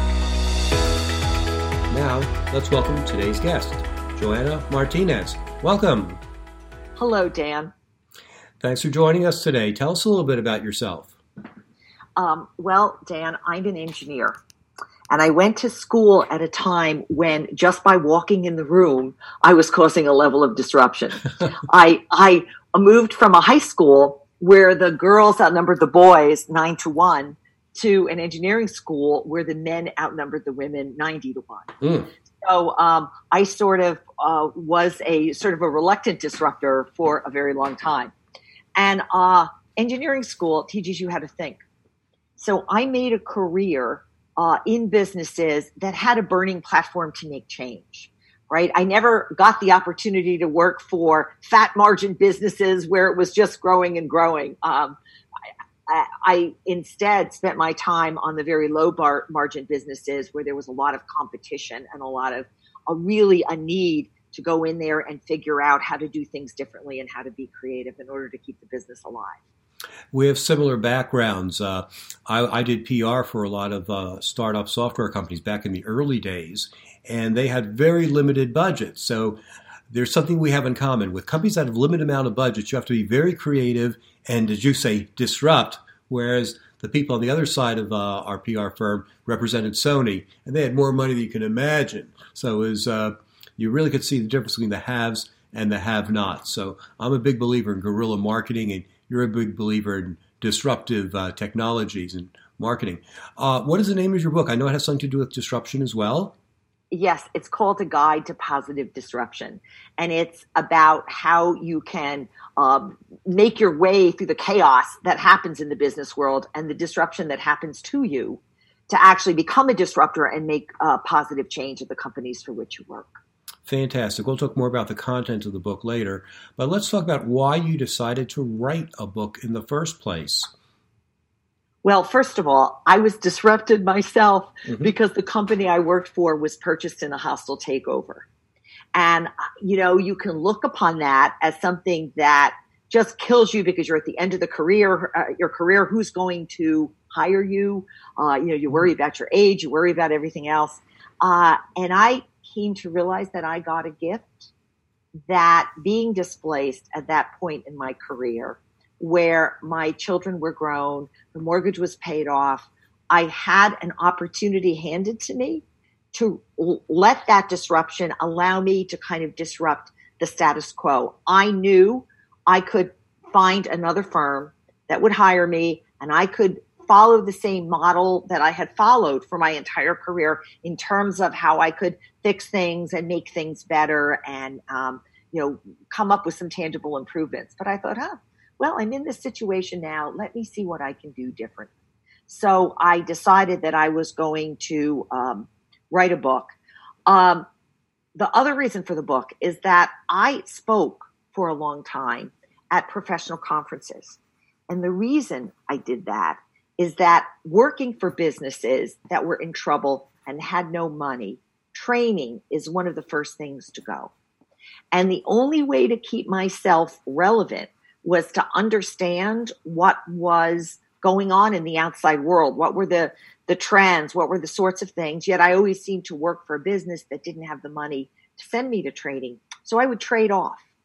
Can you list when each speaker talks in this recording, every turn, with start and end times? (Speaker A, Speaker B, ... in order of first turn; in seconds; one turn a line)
Speaker A: 1.9-6.2
Speaker B: 7.0-7.7
Speaker A: 8.6-11.2
Speaker B: 12.2-14.4
Speaker B: 15.1-31.7
Speaker A: 31.8-32.1
Speaker B: 32.4-38.1
Speaker B: 38.8-41.6
Speaker B: 42.4-55.0
Speaker B: 55.9-69.4
Speaker A: 70.1-79.4
Speaker A: 79.9-106.3
Speaker B: 106.9-123.2
Speaker A: 123.7-130.5
Speaker B: 131.8-138.2
Speaker B: 138.9-154.5
Speaker B: 155.3-191.7
Speaker B: 192.3-196.5
Speaker B: 197.1-197.4
Speaker B: 198.2-214.1
Speaker B: 214.9-230.6